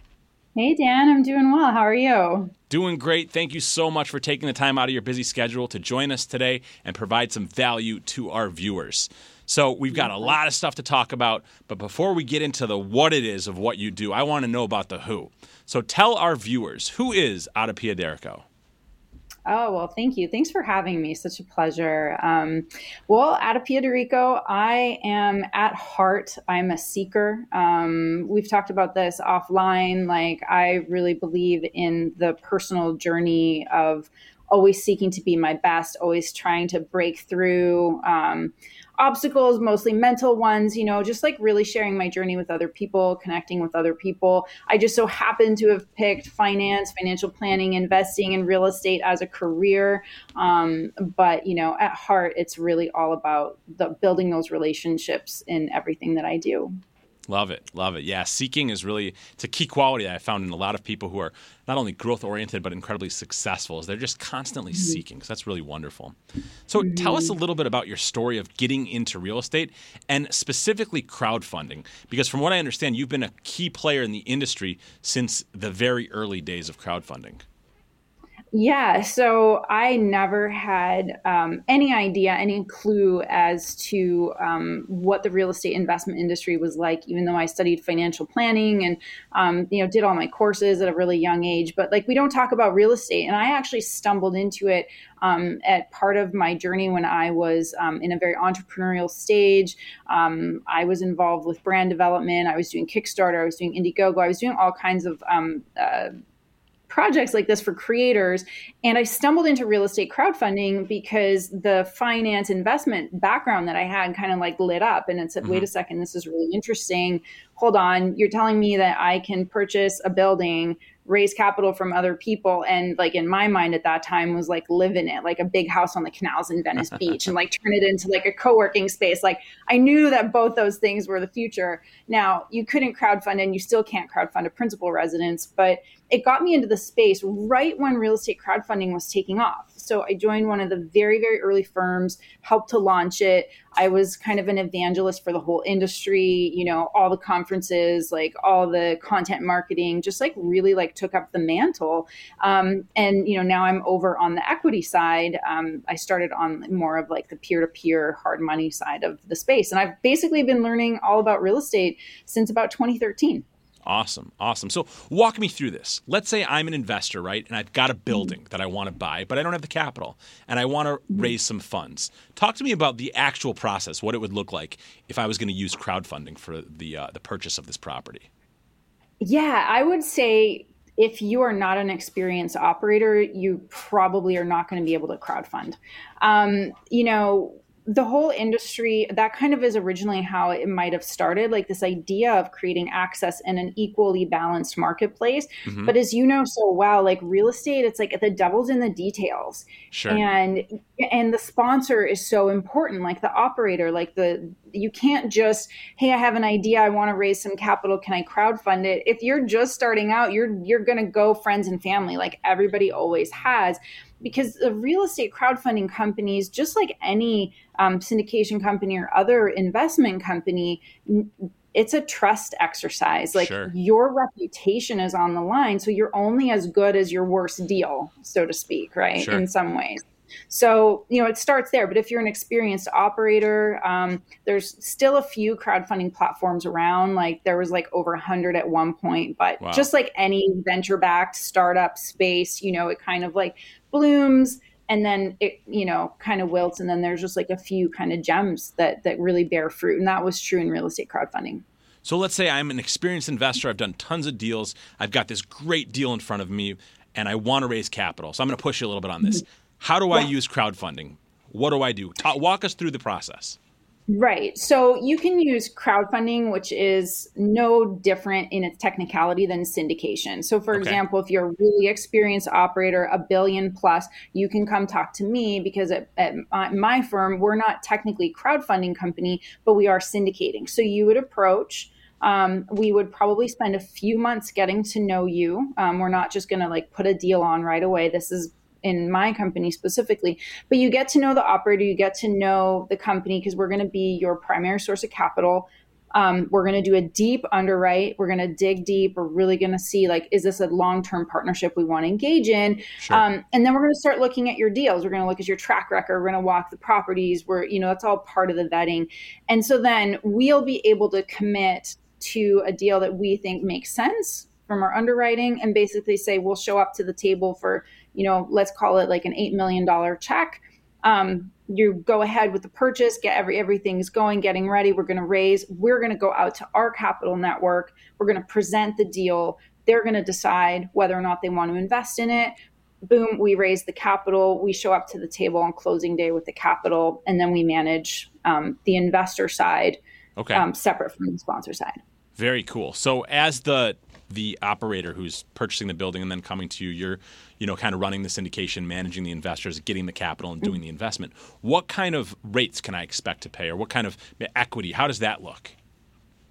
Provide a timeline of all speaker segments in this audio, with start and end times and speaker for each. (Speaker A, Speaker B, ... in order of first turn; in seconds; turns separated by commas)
Speaker A: 0.6-2.5, Speaker B: 2.7-18.4, Speaker A: 9.9-10.3, Speaker A: 19.5-56.8, Speaker B: 57.3-66.2, Speaker A: 64.7-65.0, Speaker B: 66.7-77.4, Speaker A: 66.8-67.3, Speaker A: 78.5-106.1, Speaker A: 106.9-163.4, Speaker B: 163.8-178.3, Speaker A: 179.2-251.6, Speaker B: 195.7-195.9, Speaker B: 199.9-200.2, Speaker B: 223.3-223.7, Speaker B: 229.2-229.4, Speaker B: 239.6-239.9, Speaker B: 252.0-263.6, Speaker A: 264.1-332.5, Speaker B: 270.7-271.0, Speaker A: 333.1-340.0, Speaker B: 340.4-340.6, Speaker A: 340.5-342.0, Speaker B: 342.4-355.7